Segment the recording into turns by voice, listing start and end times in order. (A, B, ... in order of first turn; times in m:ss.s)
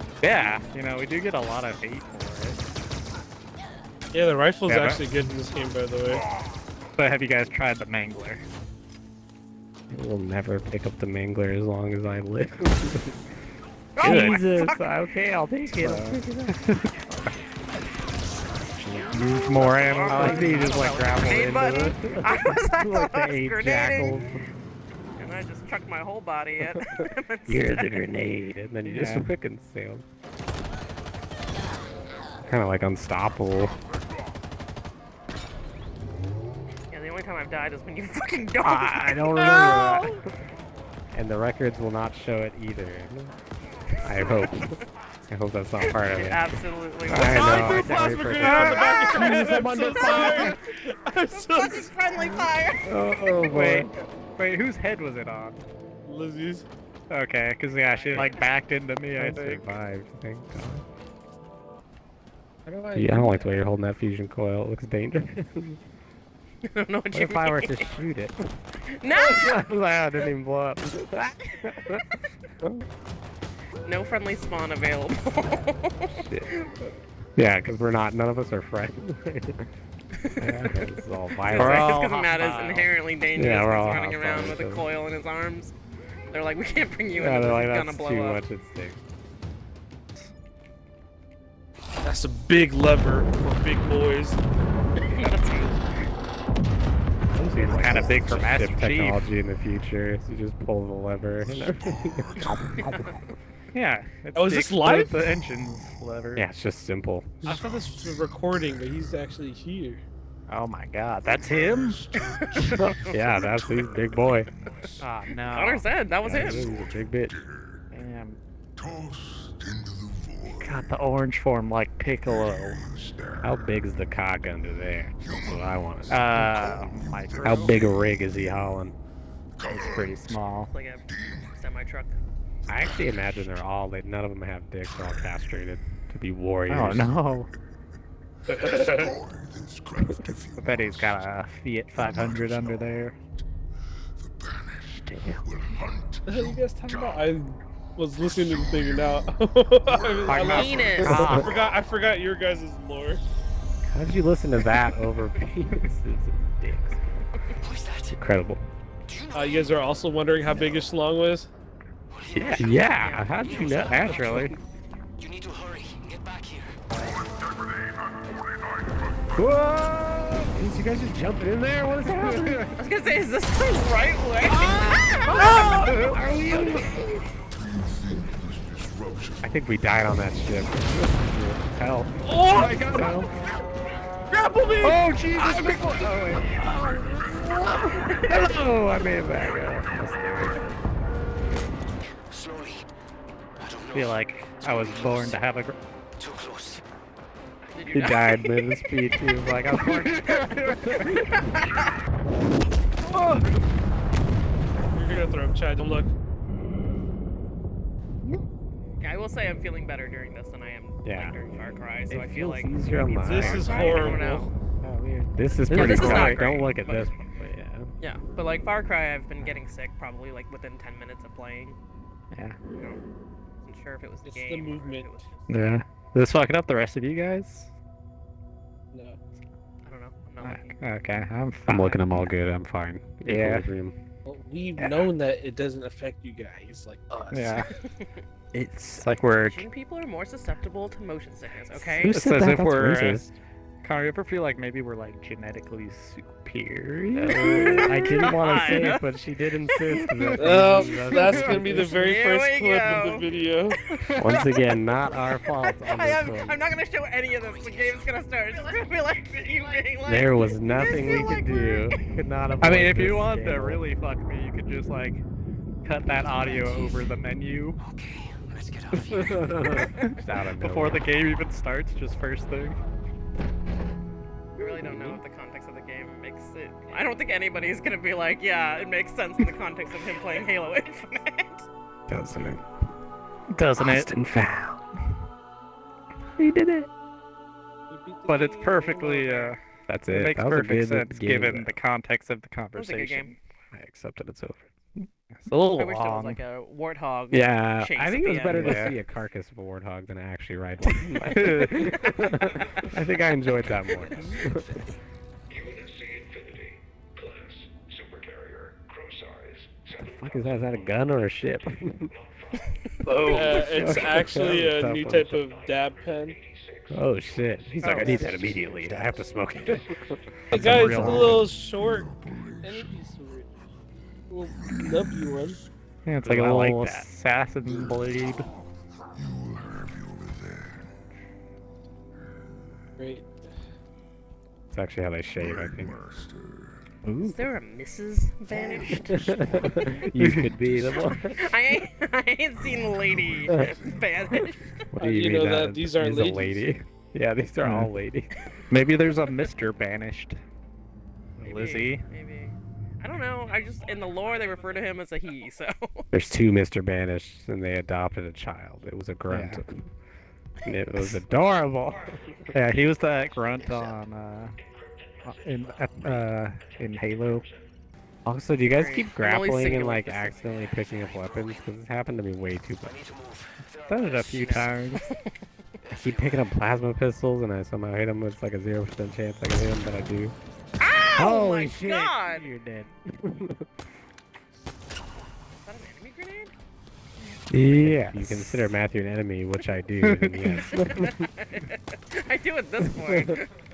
0:00.2-0:02.9 A
0:04.1-0:06.2 B
0:04.7-0:05.0 A
0:07.0-0:08.4 A
0:09.9-0:13.1 C
0:14.0-0:14.8 D
0:14.0-0:14.4 A
0:14.0-0:16.6 C
0:15.7-0:17.0 A
0:18.7-0:19.2 C
0:18.9-0:22.2 A
0:19.4-0:24.1 D
0:20.0-0:24.4 C
0:25.2-0:28.0 D
0:26.6-0:30.0 C
0:28.8-0:29.2 A
0:32.4-0:33.7 C
0:36.9-0:40.1 D
0:38.6-0:40.1 A
0:39.3-0:40.1 C
0:41.1-0:43.3 C
0:44.0-0:50.6 C
0:44.0-0:44.8 D
0:45.8-0:47.7 D
0:47.1-0:48.9 A
0:47.2-0:51.9 B
0:48.4-0:50.5 D
0:51.3-0:52.9 D
0:52.8-0:53.9 C
0:53.5-0:55.6 A
0:56.0-0:56.7 B
0:57.1-0:59.6 A
0:58.0-0:58.4 D
0:58.1-0:58.4 C
0:59.1-1:00.8 C
1:02.6-1:03.6 B
1:02.9-1:05.8 C
1:06.6-1:07.8 D
1:07.1-1:08.4 C
1:08.9-1:09.6 D
1:09.1-1:12.1 C
1:13.8-1:16.6 D
1:16.1-1:16.5 C
1:17.3-1:19.7 C
1:20.1-1:20.8 D
1:20.4-1:22.0 C
1:21.4-1:25.7 D
1:21.5-1:22.9 A
1:23.3-1:24.9 C
1:26.3-1:28.4 D
1:27.1-1:29.0 C
1:32.0-1:34.4 B
1:35.0-1:35.8 D
1:37.3-1:43.2 C
1:37.6-1:39.2 A
1:41.4-1:43.0 E
1:42.8-1:43.1 D
1:43.7-1:46.4 A
1:44.3-1:45.4 B
1:46.3-1:47.4 C
1:47.4-1:50.0 B
1:47.5-1:48.8 E
1:50.5-1:52.2 A
1:51.2-1:55.1 E
1:52.3-1:52.9 D
1:52.8-1:54.5 C
1:55.0-1:55.9 A
1:55.5-1:56.7 D
1:56.2-1:57.4 C
1:56.3-1:57.9 E
1:57.9-1:58.4 A
1:58.8-2:00.9 E
2:00.6-2:02.9 A
2:02.2-2:03.8 E
2:03.4-2:06.3 C
2:05.2-2:08.8 E
2:06.1-2:07.8 A
2:07.4-2:08.9 C
2:09.6-2:10.4 E
2:09.7-2:10.7 A
2:10.7-2:12.2 D
2:11.1-2:11.6 E
2:12.7-2:17.1 C
2:12.7-2:13.3 E
2:16.7-2:17.5 A
2:18.5-2:19.1 B
2:18.5-2:21.3 E
2:20.6-2:23.2 A
2:21.9-2:23.1 E
2:24.2-2:27.3 E
2:25.0-2:25.4 C
2:26.3-2:33.2 B
2:28.2-2:29.3 E
2:29.9-2:31.8 E
2:30.3-2:31.7 A
2:30.4-2:31.1 D
2:31.0-2:31.5 C
2:33.8-2:37.2 C
2:37.6-2:38.2 F
2:38.2-2:38.6 C
2:39.0-2:39.8 F
2:39.3-2:41.5 B
2:42.1-2:44.5 F
2:42.4-2:44.5 C
2:42.4-2:43.8 D
2:43.8-2:44.6 A
2:45.2-2:46.8 F
2:47.3-2:49.3 E
2:49.3-2:50.6 A
2:50.5-2:52.7 C
2:52.0-2:52.8 A
2:52.8-2:55.5 D
2:54.5-2:57.3 A
2:55.3-2:56.8 B
2:56.2-2:59.5 E
2:59.4-3:02.1 C
3:02.2-3:03.1 B
3:02.4-3:03.3 A
3:02.9-3:03.3 C
3:04.3-3:05.1 B
3:04.8-3:06.9 A
3:05.4-3:05.9 C
3:05.7-3:06.0 E
3:06.4-3:10.8 C
3:06.6-3:08.3 E
3:07.6-3:07.8 A
3:08.0-3:08.3 D
3:12.2-3:12.8 F
3:13.6-3:15.4 F
3:13.9-3:15.8 A
3:16.2-3:16.8 F
3:17.7-3:18.7 D
3:17.9-3:21.2 C
3:19.7-3:21.3 A
3:21.0-3:21.7 D
3:23.1-3:23.6 A
3:24.8-3:26.1 B
3:29.0-3:34.5 D
3:31.0-3:31.4 C
3:32.1-3:34.2 C
3:32.9-3:37.1 A
3:33.2-3:34.2 B
3:35.3-3:37.9 C
3:35.6-3:37.1 D
3:38.0-3:41.8 D
3:42.3-3:42.6 A
3:42.7-3:43.0 D
3:43.6-3:45.6 D
3:44.2-3:45.2 B
3:45.5-3:47.7 A
3:48.9-3:49.2 B
3:49.8-3:50.8 D
3:50.4-3:52.2 A
3:51.7-3:54.0 C
3:53.2-3:53.7 A
3:54.2-3:57.7 B
3:54.8-3:55.1 A
3:57.3-3:57.7 A
3:57.8-3:58.2 D
3:58.5-3:59.1 C
3:58.9-3:59.6 A
3:59.4-4:02.2 D
4:02.0-4:03.3 C
4:02.0-4:03.3 A
4:03.8-4:08.0 A
4:07.1-4:12.0 C
4:07.4-4:09.1 D
4:10.2-4:10.6 A
4:10.4-4:13.8 B
4:11.2-4:11.8 A
4:11.8-4:13.3 D
4:14.0-4:14.6 A
4:14.2-4:16.6 C
4:15.2-4:22.0 D
4:17.6-4:18.1 F
4:20.0-4:23.8 C
4:22.6-4:25.2 A
4:25.8-4:27.8 A
4:26.2-4:27.1 F
4:27.8-4:29.8 F
4:29.1-4:31.1 C
4:29.7-4:32.8 A
4:34.6-4:41.7 D
4:34.6-4:35.2 C
4:42.1-4:42.6 C
4:43.5-4:44.1 A
4:43.8-4:44.8 C
4:46.4-4:46.9 C
4:47.9-4:49.3 B
4:48.3-4:49.6 A
4:48.8-4:49.6 D
4:49.9-4:51.8 C
4:50.1-4:53.4 A
4:52.7-4:53.3 D
4:53.7-4:54.7 C
4:55.3-4:56.4 A
4:55.8-4:58.9 D
4:57.3-5:04.8 C
4:58.5-4:59.0 A
5:01.3-5:02.7 A
5:03.4-5:04.9 F
5:05.6-5:06.2 F
5:10.0-5:12.1 C
5:13.1-5:15.5 C
5:13.2-5:16.4 B
5:16.9-5:21.4 C
5:17.8-5:18.5 A
5:18.0-5:18.5 B
5:20.5-5:21.5 A
5:20.5-5:22.1 B
5:21.0-5:23.1 E
5:22.6-5:23.5 B
5:24.3-5:25.6 B
5:24.6-5:25.4 E
5:26.0-5:28.5 A
5:26.2-5:27.1 C
5:27.6-5:28.6 E
5:29.1-5:31.0 E
5:33.0-5:33.5 B
5:34.7-5:36.0 C
5:35.4-5:36.9 E
5:37.0-5:37.4 A
5:37.2-5:39.2 D
5:38.6-5:41.4 E
5:39.1-5:41.4 C
5:40.2-5:40.5 A
5:41.3-5:44.8 D
5:42.6-5:44.9 E
5:43.5-5:43.7 C
5:44.9-5:48.3 C
5:45.0-5:46.7 B
5:47.6-5:47.9 A
5:48.7-5:50.4 A
5:51.4-5:52.0 A
5:51.4-5:56.0 D
5:56.1-5:59.9 C
5:59.3-5:59.6 A
6:00.6-6:02.2 C
6:02.5-6:04.5 A
6:05.2-6:07.5 A
6:08.2-6:13.0 C
6:08.7-6:10.4 D
6:10.7-6:11.5 F
6:12.8-6:14.7 F
6:13.8-6:15.1 A
6:14.3-6:15.2 D
6:15.8-6:16.5 F
6:15.9-6:20.4 C
6:20.8-6:22.5 D
6:21.1-6:23.7 C
6:25.6-6:26.5 D
6:27.5-6:31.3 C
6:27.6-6:28.7 A
6:30.0-6:30.7 A
6:30.7-6:33.5 D
6:32.8-6:33.3 C